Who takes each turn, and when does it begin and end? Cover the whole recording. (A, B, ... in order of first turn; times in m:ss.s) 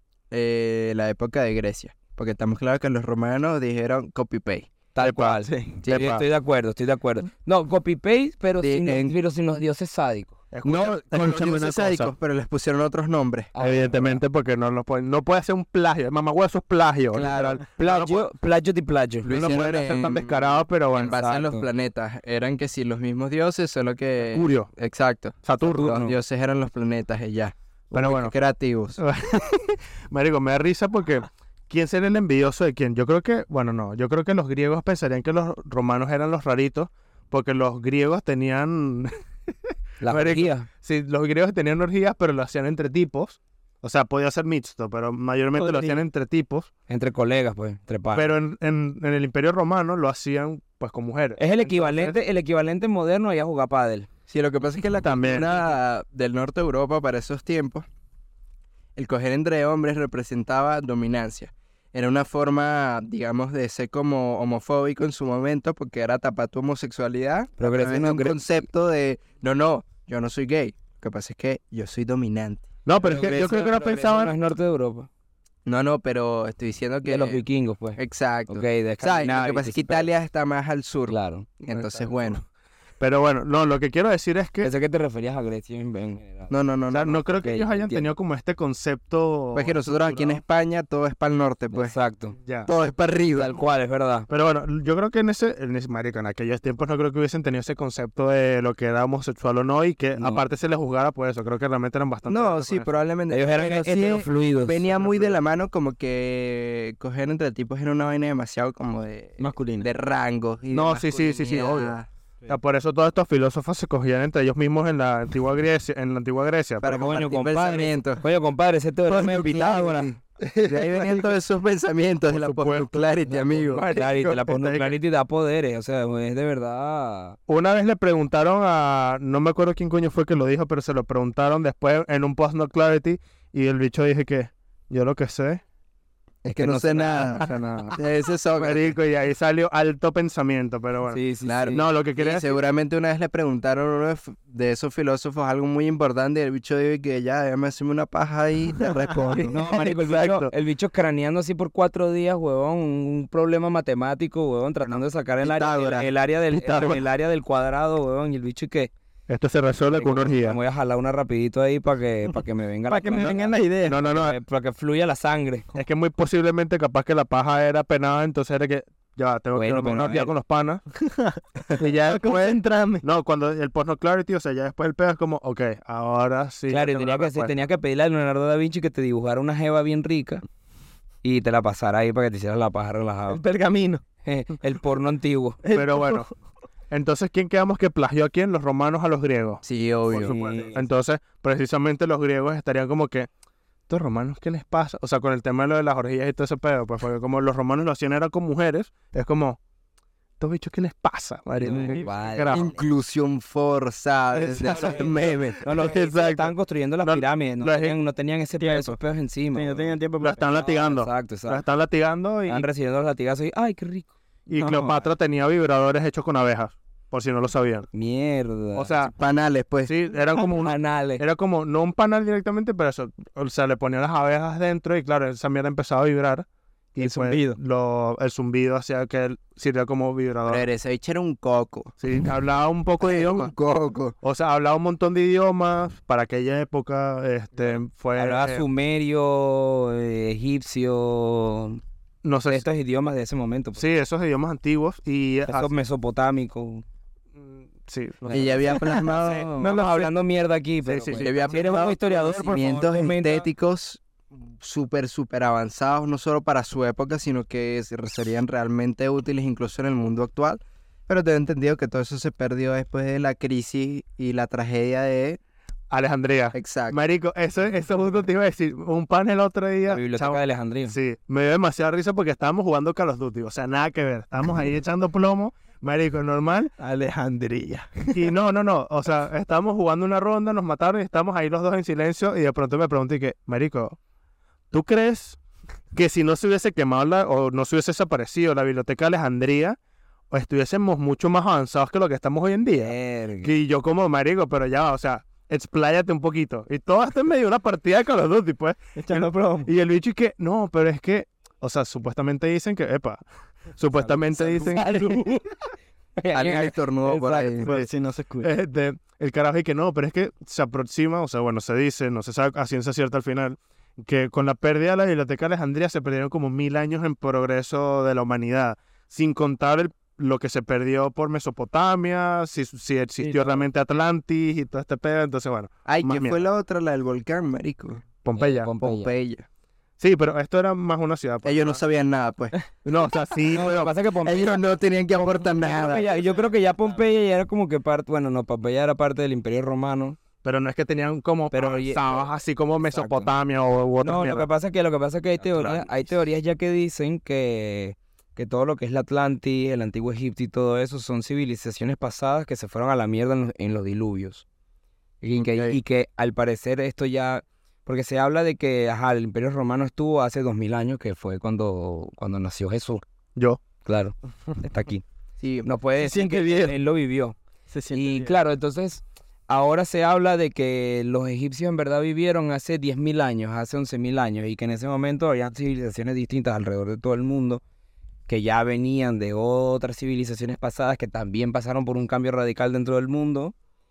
0:00.3-0:04.7 A
0:05.0-0:10.4 B
0:05.0-0:06.2 C
0:05.8-0:06.2 A
0:08.6-0:09.2 A
0:10.5-0:12.1 C
0:10.6-0:13.6 A
0:13.5-0:14.2 B
0:13.6-0:18.3 C
0:17.1-0:17.6 A
0:17.8-0:19.4 B
0:19.2-0:29.0 A
0:19.3-0:21.2 C
0:21.0-0:21.7 B
0:24.3-0:24.7 C
0:25.4-0:26.0 C
0:25.6-0:26.2 B
0:27.9-0:28.4 C
0:29.0-0:39.2 C
0:40.0-0:40.7 B
0:40.0-0:46.7 C
0:45.6-0:46.0 D
0:46.9-0:48.3 B
0:48.1-0:52.2 C
0:51.4-0:54.1 B
0:54.3-0:57.8 A
0:55.0-0:55.5 C
0:59.0-1:12.7 A
1:07.6-1:08.4 B
1:12.8-1:14.3 C
1:13.0-1:15.1 B
1:15.6-1:17.4 A
1:17.0-1:20.1 B
1:18.0-1:22.4 A
1:21.1-1:21.5 B
1:21.7-1:22.4 C
1:23.0-1:24.7 C
1:24.6-1:26.5 B
1:26.5-1:27.2 A
1:26.9-1:30.4 C
1:27.4-1:28.1 B
1:29.5-1:32.0 A
1:31.7-1:32.4 B
1:32.4-1:32.7 C
1:32.7-1:33.5 A
1:33.4-1:34.3 B
1:34.3-1:42.9 C
1:40.2-1:40.4 B
1:42.3-1:52.1 A
1:43.3-1:44.9 B
1:49.4-1:49.9 D
1:50.7-1:52.0 C
1:52.5-1:57.0 C
1:56.8-1:58.2 A
1:56.8-2:00.2 B
1:59.1-2:04.4 A
2:00.4-2:01.3 C
2:02.3-2:04.9 C
2:03.9-2:07.4 B
2:07.5-2:15.6 C
2:16.4-2:19.0 A
2:16.6-2:17.8 B
2:17.4-2:18.0 C
2:18.6-2:22.6 C
2:21.1-2:21.8 B
2:21.4-2:29.6 A
2:29.4-2:30.5 C
2:29.5-2:38.9 B
2:35.4-2:37.0 A
2:39.3-2:40.6 C
2:39.9-2:45.7 B
2:42.9-2:44.0 D
2:43.8-2:44.4 C
2:45.8-2:50.8 C
2:49.6-2:50.3 B
2:51.0-2:53.0 D
2:51.8-2:57.5 C
2:56.7-3:00.4 B
3:01.2-3:03.4 B
3:03.3-3:04.0 D
3:04.2-3:05.6 B
3:05.6-3:06.3 D
3:05.7-3:06.3 C
3:06.9-3:13.3 C
3:09.6-3:10.3 A
3:10.1-3:10.8 B
3:13.9-3:19.6 C
3:20.4-3:22.7 C
3:21.6-3:22.8 B
3:22.5-3:25.6 A
3:24.5-3:24.9 C
3:24.7-3:25.0 D
3:24.8-3:25.0 B
3:25.6-3:30.0 B
3:25.7-3:26.5 C
3:27.0-3:28.0 C
3:28.6-3:29.0 D
3:29.5-3:30.6 D
3:30.2-3:32.7 C
3:30.5-3:31.6 B
3:32.5-3:34.1 B
3:34.5-3:37.9 C
3:34.5-3:35.0 D
3:37.9-3:39.0 B
3:38.8-3:39.1 C
3:39.1-3:39.9 A
3:39.9-3:50.6 C
3:40.6-3:41.2 B
3:47.0-3:47.6 D
3:50.5-3:52.0 A
3:52.0-3:53.5 C
3:53.0-3:54.2 A
3:54.2-3:58.7 C
3:58.2-4:01.8 B
4:02.2-4:02.7 C
4:02.5-4:03.8 B
4:03.8-4:05.7 C
4:05.5-4:06.8 B
4:07.4-4:08.7 C
4:08.2-4:13.5 B
4:08.3-4:09.9 A
4:10.8-4:11.3 C
4:11.1-4:25.4 A
4:25.9-4:36.7 C
4:26.5-4:27.0 A
4:29.9-4:31.0 B
4:36.8-4:38.3 D
4:38.1-4:44.0 C
4:44.7-4:45.4 C
4:45.9-4:49.8 C
4:50.3-5:03.2 C
4:52.8-4:53.5 B
4:59.0-4:59.7 D
5:03.8-5:05.2 C
5:04.0-5:04.7 D
5:04.6-5:05.5 B
5:06.2-5:07.6 B
5:06.3-5:07.7 A
5:07.6-5:08.5 D
5:08.4-5:26.4 C
5:23.2-5:23.6 D
5:25.9-5:28.0 A
5:28.2-5:28.7 C
5:28.4-5:29.1 B
5:28.8-5:29.5 A
5:30.0-5:31.8 C
5:31.4-5:32.6 A
5:32.8-5:33.9 C
5:33.5-5:34.6 B
5:34.2-5:36.1 A
5:35.5-5:40.2 B
5:40.4-5:44.5 C
5:41.5-5:42.2 B
5:42.8-5:43.3 B
5:44.0-5:54.4 B
5:55.2-6:03.0 B
5:55.4-5:55.8 A
6:03.4-6:03.6 C
6:03.8-6:05.0 B
6:05.4-6:05.7 A
6:05.6-6:07.4 B
6:06.0-6:06.8 D
6:07.7-6:08.4 D
6:07.9-6:17.6 B
6:18.3-6:23.5 B